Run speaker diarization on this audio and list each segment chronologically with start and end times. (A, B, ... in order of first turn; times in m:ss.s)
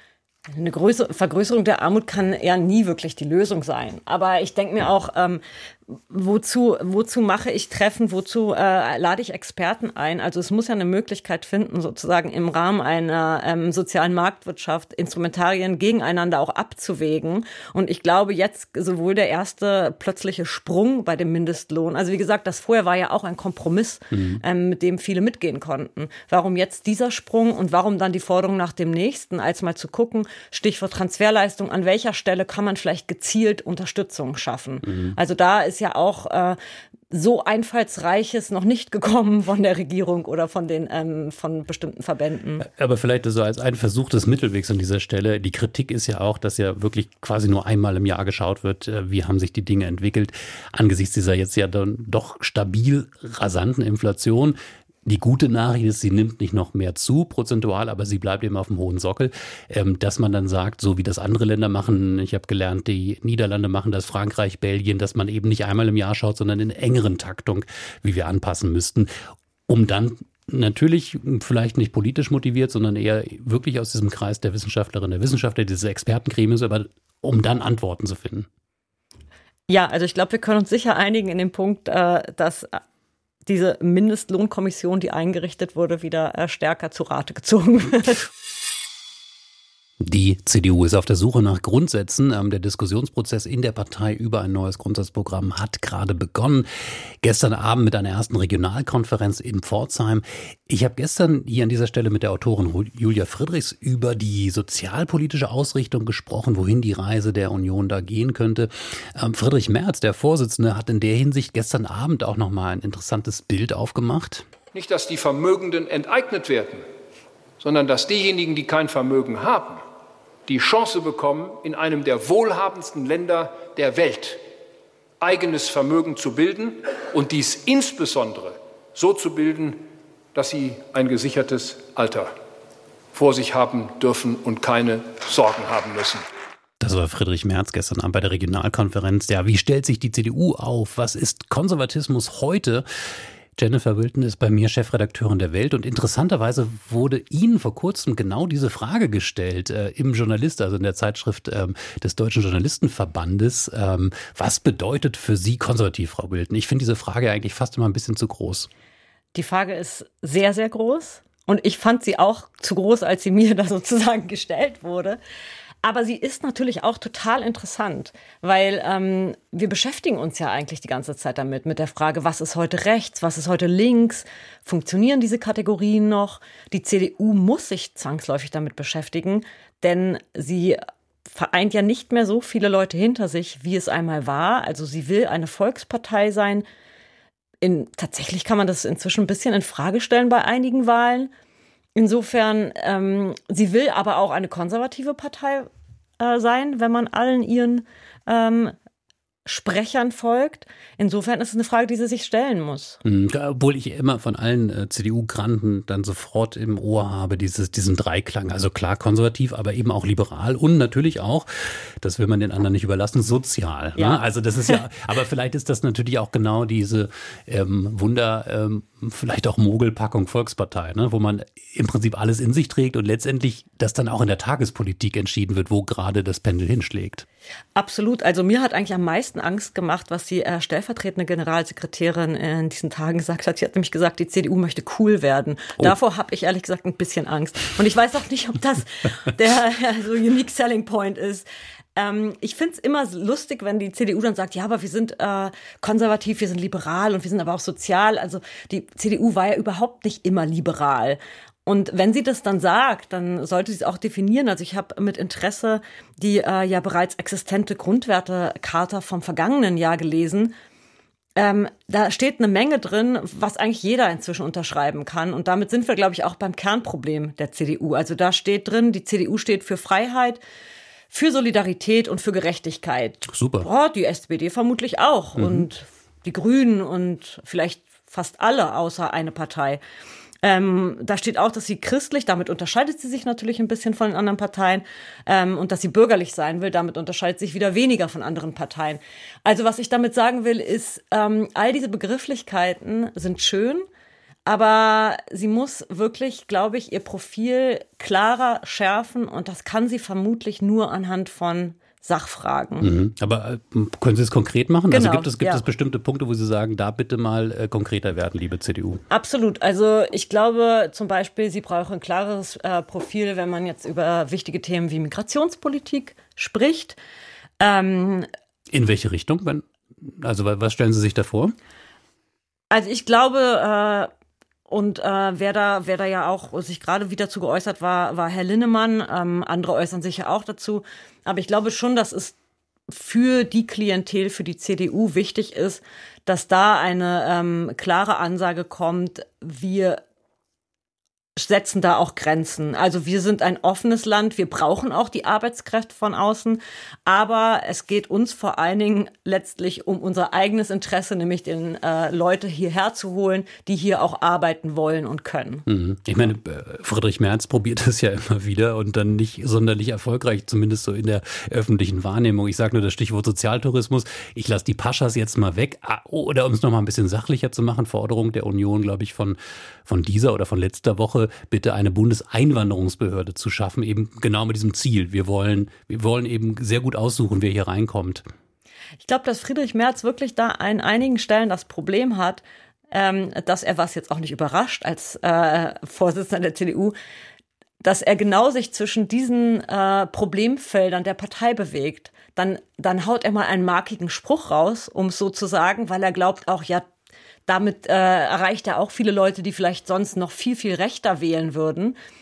0:00.5-0:36.6 A
0:24.1-0:24.4 B
0:34.9-0:35.2 B
0:37.1-0:42.7 A
0:42.6-1:09.1 B
1:09.7-1:18.5 B
1:19.7-1:22.8 A
1:23.5-1:28.3 A
1:30.0-1:36.7 B
1:37.2-1:54.5 B
1:54.7-1:56.8 C
1:57.6-1:59.8 C
2:00.5-2:04.4 C
2:05.2-2:09.8 C
2:10.4-2:12.3 C
2:13.1-2:16.2 C
2:16.8-2:22.9 B
2:23.6-2:38.7 B
2:39.4-2:45.2 A
2:45.8-3:06.6 A
3:07.6-3:11.3 A
3:12.0-3:18.8 A
3:19.5-3:23.0 A
3:23.0-3:47.3 B
3:34.0-3:34.8 A
3:47.8-4:01.4 A
4:02.0-4:20.5 A
4:21.4-4:30.4 A
4:31.1-4:39.8 A
4:33.3-4:33.7 B
4:35.4-4:35.7 B
4:40.4-4:53.9 A
4:54.5-5:02.9 A
5:02.8-5:09.0 B
5:04.9-5:05.6 A
5:09.1-5:17.0 A
5:17.6-5:18.3 A
5:18.7-5:21.5 B
5:22.7-5:24.1 A
5:24.7-5:32.4 A
5:32.9-5:40.0 A
5:41.4-5:55.6 A
5:55.7-6:18.3 B
6:19.0-6:27.0 A
6:27.8-6:36.9 A
6:37.5-6:42.0 A